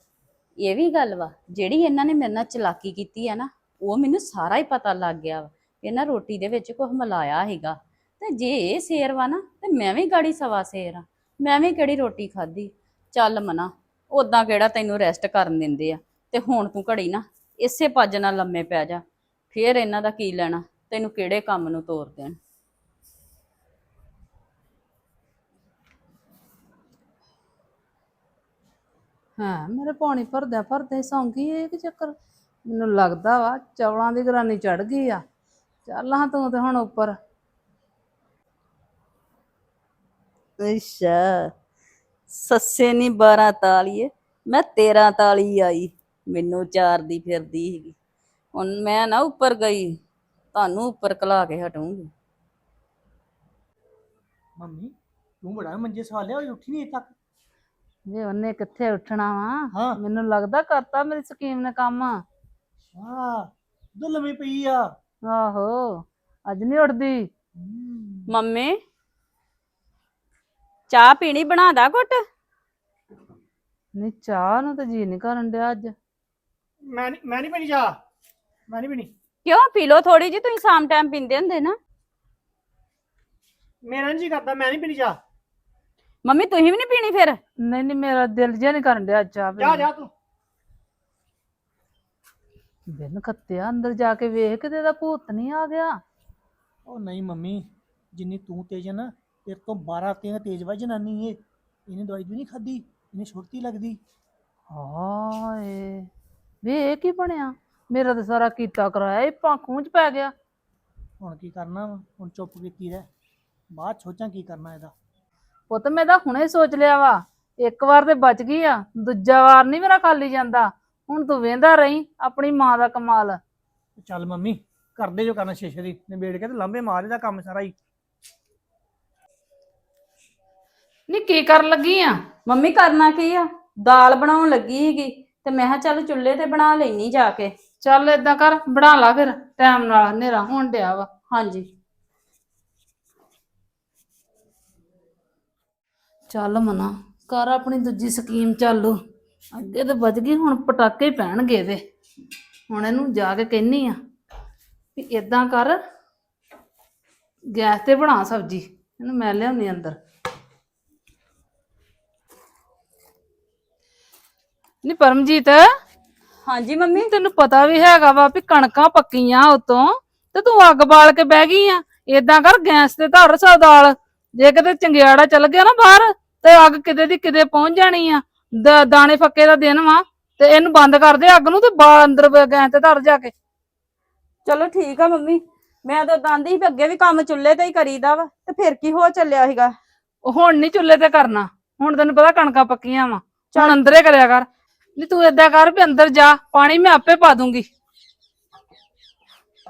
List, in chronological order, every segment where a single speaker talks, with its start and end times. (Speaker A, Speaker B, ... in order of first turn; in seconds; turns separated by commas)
Speaker A: 0.6-22.4, Speaker B: 29.4-32.1, Speaker B: 32.6-35.2, Speaker B: 35.9-37.1, Speaker A: 40.6-41.5, Speaker A: 42.3-47.9, Speaker A: 48.5-50.0, Speaker A: 50.5-52.1, Speaker C: 54.6-57.1, Speaker B: 58.1-62.2, Speaker C: 59.7-60.0, Speaker C: 62.9-64.8, Speaker B: 65.3-67.3, Speaker C: 67.6-68.3, Speaker A: 68.3-68.8, Speaker A: 70.9-72.2, Speaker B: 73.9-75.9, Speaker C: 76.8-78.0, Speaker C: 78.7-79.1, Speaker A: 79.4-81.8, Speaker C: 83.8-85.2, Speaker A: 86.2-87.4, Speaker B: 87.6-89.9, Speaker C: 89.6-90.1, Speaker B: 92.9-96.0, Speaker C: 96.8-104.0, Speaker B: 104.7-106.1, Speaker B: 106.6-110.3, Speaker C: 111.2-113.1, Speaker C: 113.7-114.9, Speaker B: 115.7-123.4, Speaker C: 124.0-127.7, Speaker B: 131.1-132.1, Speaker A: 132.4-137.5, Speaker B: 137.8-141.1, Speaker A: 141.3-141.7, Speaker B: 146.3-149.0, Speaker B: 149.5-151.8, Speaker B: 152.7-154.0, Speaker B: 154.9-155.8, Speaker B: 157.5-160.0, Speaker B: 164.8-165.6, Speaker A: 166.4-167.1, Speaker B: 167.0-183.3, Speaker A: 184.4-189.8, Speaker B: 190.2-197.7, Speaker A: 193.5-193.9